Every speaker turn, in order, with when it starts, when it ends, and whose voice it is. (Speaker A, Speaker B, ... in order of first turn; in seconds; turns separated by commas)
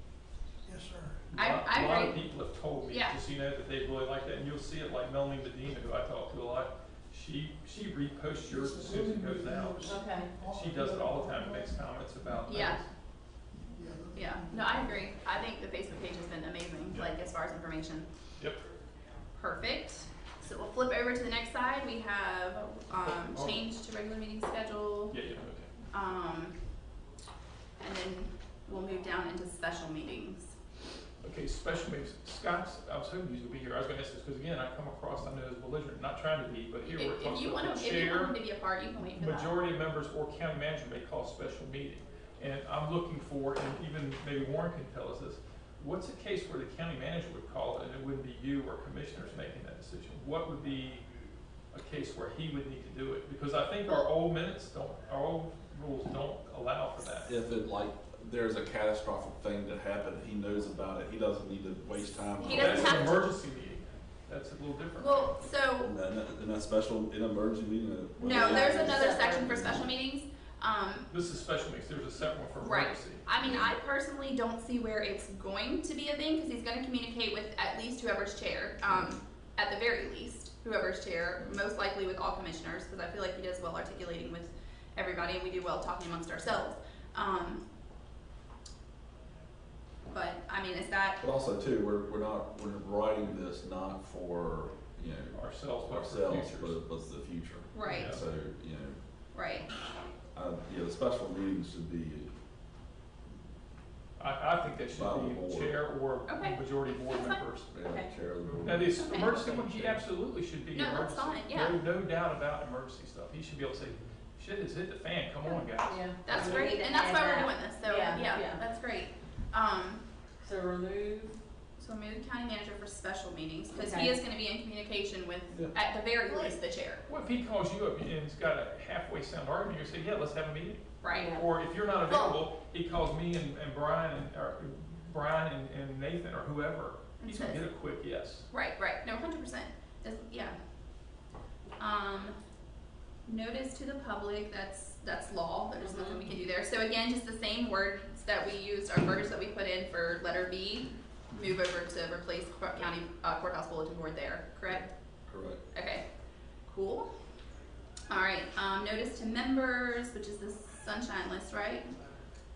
Speaker A: 0.7-1.3, Speaker B: 1.3-12.9, Speaker C: 1.4-2.2, Speaker C: 2.9-3.2, Speaker A: 8.5-11.8, Speaker D: 9.8-10.3, Speaker C: 12.4-12.8, Speaker A: 13.7-15.0, Speaker C: 14.1-18.1, Speaker C: 19.4-25.2, Speaker B: 23.0-23.6, Speaker B: 25.1-25.7, Speaker C: 25.9-26.7, Speaker C: 27.8-30.5, Speaker B: 31.2-38.3, Speaker C: 36.8-39.5, Speaker B: 39.1-51.0, Speaker B: 51.7-57.3, Speaker E: 57.2-63.1, Speaker C: 62.4-63.3, Speaker B: 62.5-65.4, Speaker C: 65.0-65.9, Speaker E: 65.8-69.9, Speaker C: 68.2-71.1, Speaker D: 68.2-69.6, Speaker B: 71.1-73.3, Speaker C: 72.6-87.6, Speaker E: 73.4-73.7, Speaker C: 90.1-91.2, Speaker E: 91.2-99.0, Speaker B: 95.3-96.8, Speaker C: 97.7-98.1, Speaker B: 97.8-98.3, Speaker C: 99.3-99.7, Speaker E: 100.3-102.3, Speaker B: 104.2-107.7, Speaker E: 104.9-105.8, Speaker C: 106.2-107.4, Speaker E: 107.7-109.9, Speaker D: 107.8-108.1, Speaker B: 108.6-116.7, Speaker C: 108.8-109.5, Speaker D: 109.2-109.8, Speaker C: 110.7-111.8, Speaker D: 115.8-118.6, Speaker C: 116.2-120.0, Speaker D: 120.4-121.4, Speaker C: 121.8-127.0, Speaker D: 123.7-124.2, Speaker E: 125.5-125.7, Speaker D: 126.3-126.5, Speaker B: 127.1-138.5, Speaker C: 131.0-131.4, Speaker D: 131.1-131.4, Speaker C: 132.1-132.4, Speaker C: 137.2-137.6, Speaker C: 138.5-140.6, Speaker C: 141.8-142.3, Speaker C: 143.3-154.9, Speaker D: 145.8-146.2, Speaker E: 155.3-155.6, Speaker C: 155.7-156.0, Speaker C: 156.7-157.1, Speaker C: 158.1-161.9